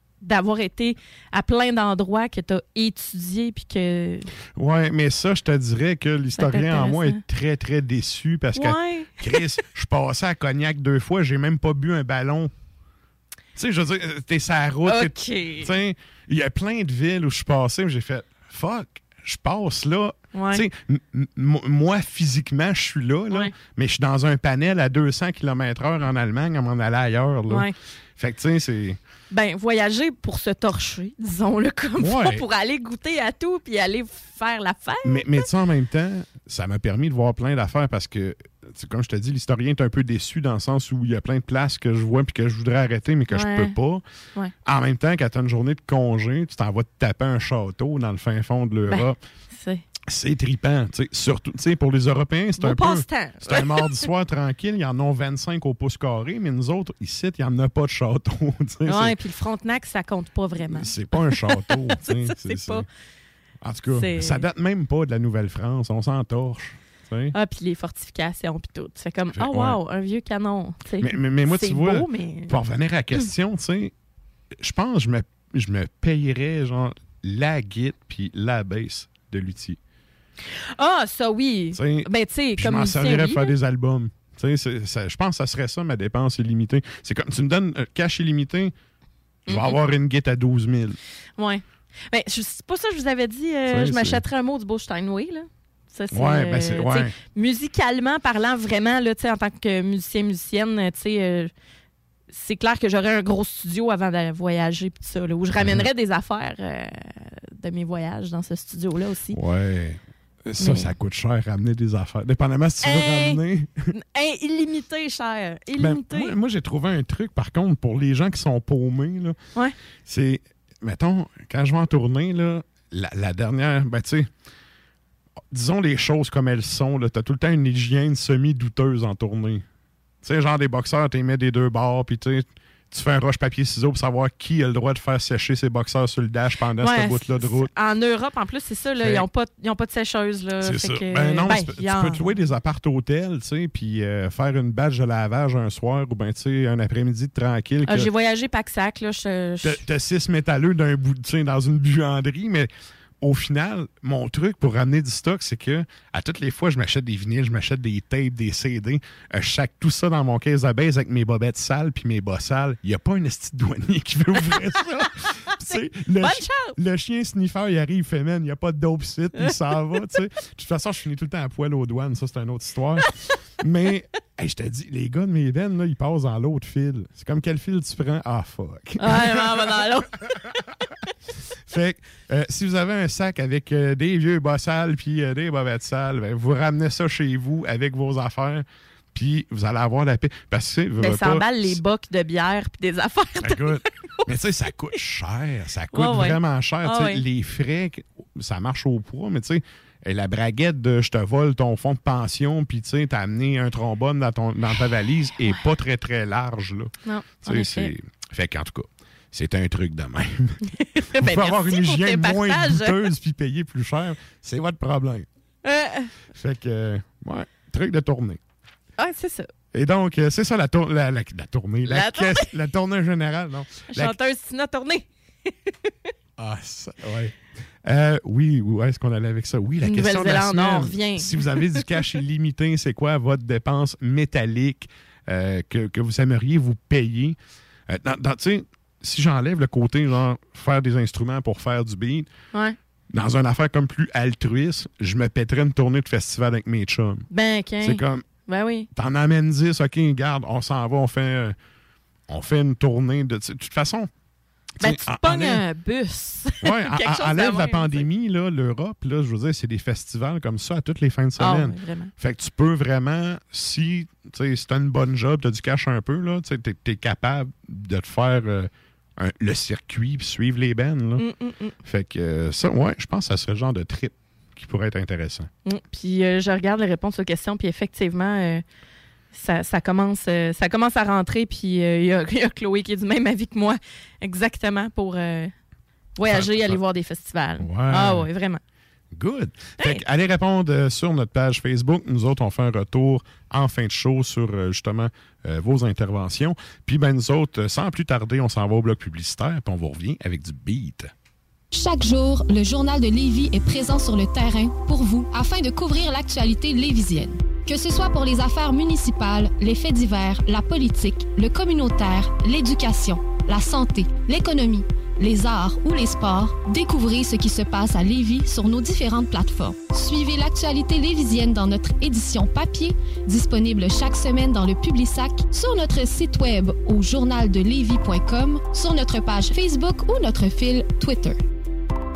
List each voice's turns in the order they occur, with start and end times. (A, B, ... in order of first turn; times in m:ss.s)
0:00.2-0:04.3 A
0:04.5-0:12.5 B
0:06.4-0:07.2 A
0:08.6-0:09.2 A
0:13.6-0:29.0 B
0:14.8-0:15.7 A
0:20.3-0:20.6 A
0:27.5-0:27.7 A
0:29.3-0:35.5 A
0:32.0-0:32.4 B
0:35.0-0:44.0 B
0:43.3-0:43.7 A
0:44.6-0:49.2 B
0:48.9-0:49.8 A
0:50.1-0:59.1 B
0:52.6-0:54.0 A
0:58.9-1:02.8 A
1:00.7-1:02.8 B
1:03.6-1:07.3 B
1:03.9-1:04.4 A
1:07.3-1:12.5 A
1:09.3-1:09.8 B
1:11.0-1:13.9 B
1:14.6-1:19.8 B
1:20.8-1:23.5 A
1:21.7-1:28.7 B
1:29.5-1:31.0 B
1:29.5-1:29.8 A
1:31.4-1:41.5 A
1:33.7-1:34.2 B
1:36.1-1:37.1 B
1:42.3-1:49.4 A
1:45.6-1:45.9 B
1:49.3-1:53.9 B
1:50.6-1:50.9 A
1:52.8-1:53.4 A
1:53.9-1:56.3 A
1:55.8-1:59.4 B
2:00.0-2:04.3 B
2:05.5-2:09.6 B
2:10.2-2:17.7 B
2:16.8-2:22.2 A
2:20.6-2:28.1 B
2:27.8-2:29.8 A
2:29.6-2:32.7 B
2:33.2-2:59.8 B
2:45.6-2:46.8 A
2:59.0-3:00.2 A
3:01.7-3:11.8 B
3:11.0-3:13.7 A
3:13.4-3:30.6 B
3:15.9-3:17.2 A
3:27.0-3:27.9 A
3:30.8-3:33.0 A
3:31.1-3:35.2 B
3:35.6-3:36.1 A
3:36.3-3:38.4 B
3:39.0-3:39.5 A
3:39.7-3:44.1 B
3:41.9-3:42.5 A
3:43.9-3:45.1 A
3:46.4-3:57.4 B
3:49.8-3:51.8 A
3:57.9-4:02.3 B
4:03.1-4:07.2 B
4:07.3-4:08.9 A
4:07.8-4:08.2 B
4:08.9-4:11.6 B
4:12.3-4:14.1 B
4:14.8-4:15.6 B
4:14.8-4:18.0 A
4:16.6-4:31.2 B
4:21.4-4:22.1 A
4:31.2-4:31.8 A
4:31.8-4:35.5 B
4:35.6-4:38.6 A
4:39.3-4:45.5 A
4:46.2-4:48.6 A
4:46.2-4:46.8 B
4:47.6-4:48.3 B
4:49.1-5:01.1 B
5:01.7-5:31.4 C